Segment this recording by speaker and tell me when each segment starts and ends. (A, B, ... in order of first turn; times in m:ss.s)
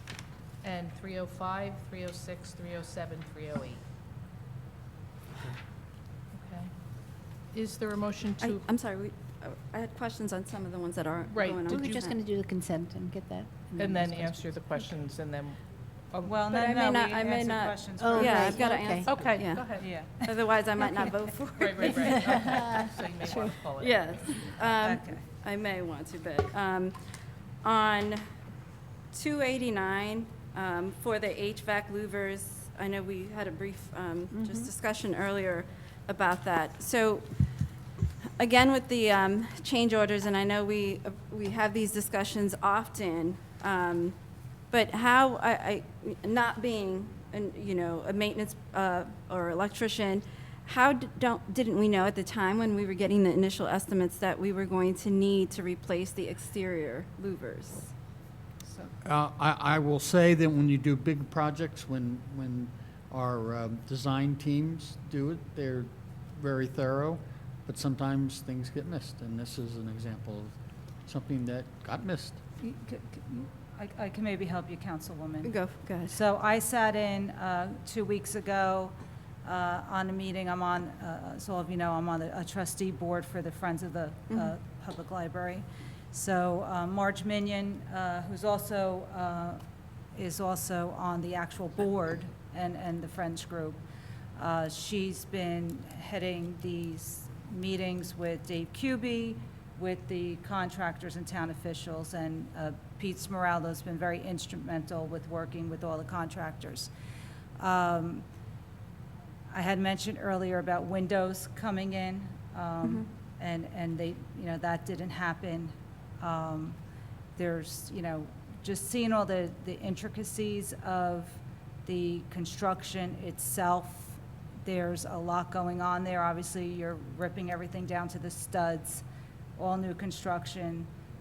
0:00.6-0:03.8 A
0:06.3-0:08.7 A
0:08.4-0:12.1 B
0:11.3-0:12.2 A
0:11.6-0:14.3 C
0:13.7-0:16.8 A
0:16.2-0:18.6 D
0:16.6-0:27.0 B
0:18.0-0:19.1 C
0:19.0-0:20.0 A
0:19.6-0:20.3 D
0:21.6-0:24.2 A
0:22.1-0:22.9 C
0:24.6-0:25.2 D
0:27.6-0:28.3 B
0:29.1-0:37.3 B
0:34.3-0:34.7 C
0:38.4-0:57.9 B
0:58.6-0:58.9 D
0:59.0-1:10.5 E
1:11.1-1:12.4 E
1:12.6-1:29.6 D
1:15.4-1:16.2 B
1:30.2-1:33.8 D
1:34.4-1:46.9 D
1:47.6-1:48.2 D
1:49.5-1:56.8 D
1:52.8-1:53.1 B
1:57.4-2:09.0 D
2:09.6-2:10.9 D